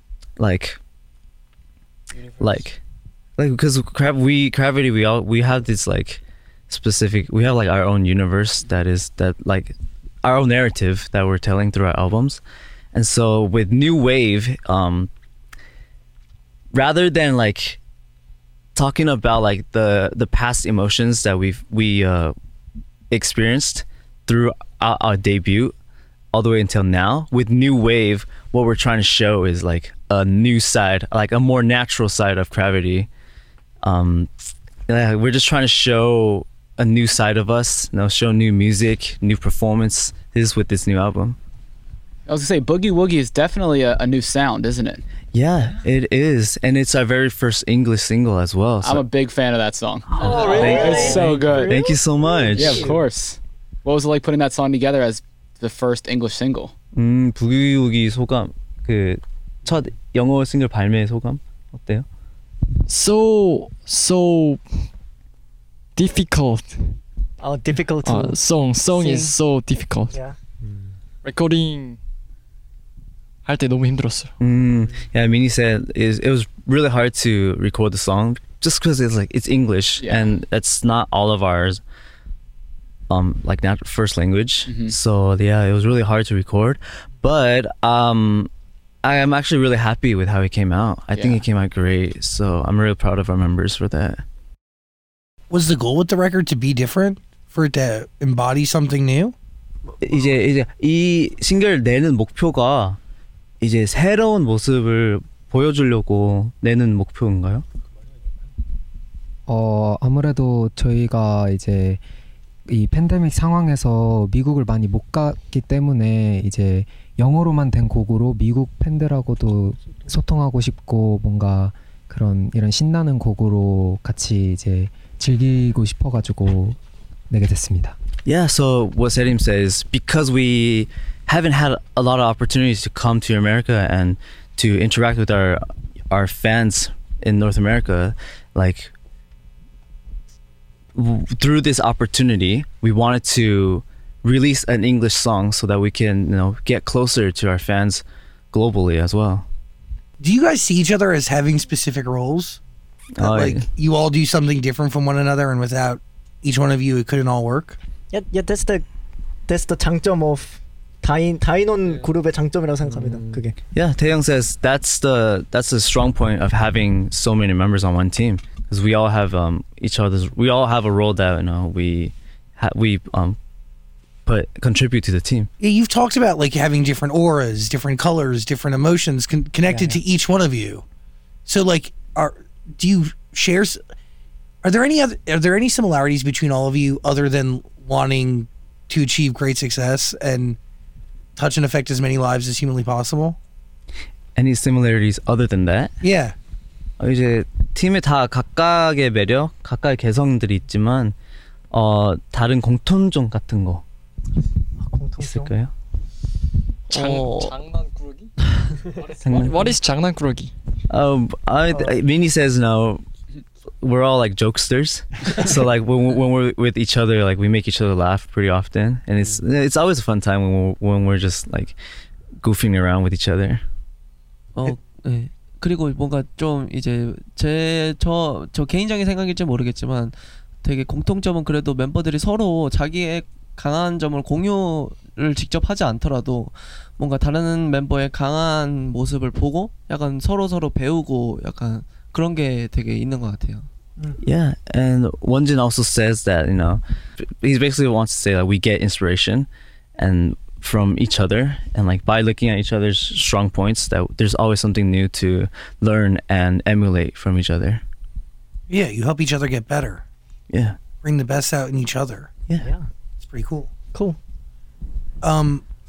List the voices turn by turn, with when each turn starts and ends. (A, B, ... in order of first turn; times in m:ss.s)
0:00.4-0:00.8 A
0:02.4-0:02.8 A
0:03.4-0:12.4 A
0:12.9-0:15.1 A
0:16.7-0:17.8 A
0:18.8-0:22.4 A
0:23.1-0:25.8 A
0:26.3-0:33.1 A
0:33.8-0:41.4 A
0:42.3-0:45.0 B
0:45.3-0:49.0 A
0:48.8-0:51.7 B
0:50.1-0:52.9 A
0:50.2-0:53.0 C
0:52.5-0:56.7 B
0:57.0-1:02.1 A
1:02.9-1:04.9 D
1:06.0-1:07.0 D
1:07.4-1:08.4 C
1:08.0-1:10.2 D
1:08.9-1:09.4 C
1:10.1-1:10.4 C
1:11.2-1:12.0 D
1:13.4-1:14.3 D
1:14.4-1:21.8 A
1:20.0-1:20.3 B
1:23.1-1:28.5 A
1:24.7-1:25.0 B
1:29.0-1:34.2 A
1:31.2-1:31.4 B
1:35.5-1:39.4 E
1:40.0-1:43.0 A
1:43.6-1:47.6 A
1:49.5-1:52.0 F
1:52.7-2:06.8 F
2:07.3-2:08.0 F
2:08.3-2:18.9 A
2:21.0-2:29.5 A
2:30.2-2:32.6 E
2:33.2-2:33.6 A
2:33.2-2:37.8 E
2:38.1-2:38.8 C
2:39.5-2:43.6 C
2:43.7-2:53.4 A
2:54.3-2:55.5 A
2:55.6-3:00.8 E
2:59.7-3:00.0 C
3:01.5-3:03.8 E
3:04.6-3:10.6 E
3:11.4-3:13.4 E
3:14.4-3:16.0 A
3:16.0-3:16.4 E
3:17.0-3:21.2 A
3:21.7-3:23.8 A
3:24.8-3:25.5 C
3:25.2-3:25.7 A
3:26.9-3:27.6 G
3:26.9-3:28.3 D
3:29.2-3:29.8 A
3:29.2-3:30.5 D
3:30.9-3:33.0 A
3:33.8-3:41.8 A
3:42.4-3:43.6 A
3:44.5-4:03.7 G
4:04.2-4:17.8 A
4:18.7-4:20.0 E
4:20.5-4:20.8 A
4:21.0-4:22.3 E
4:22.6-4:22.9 C
4:23.2-4:23.7 E
4:23.9-4:24.2 C
4:25.2-4:25.6 E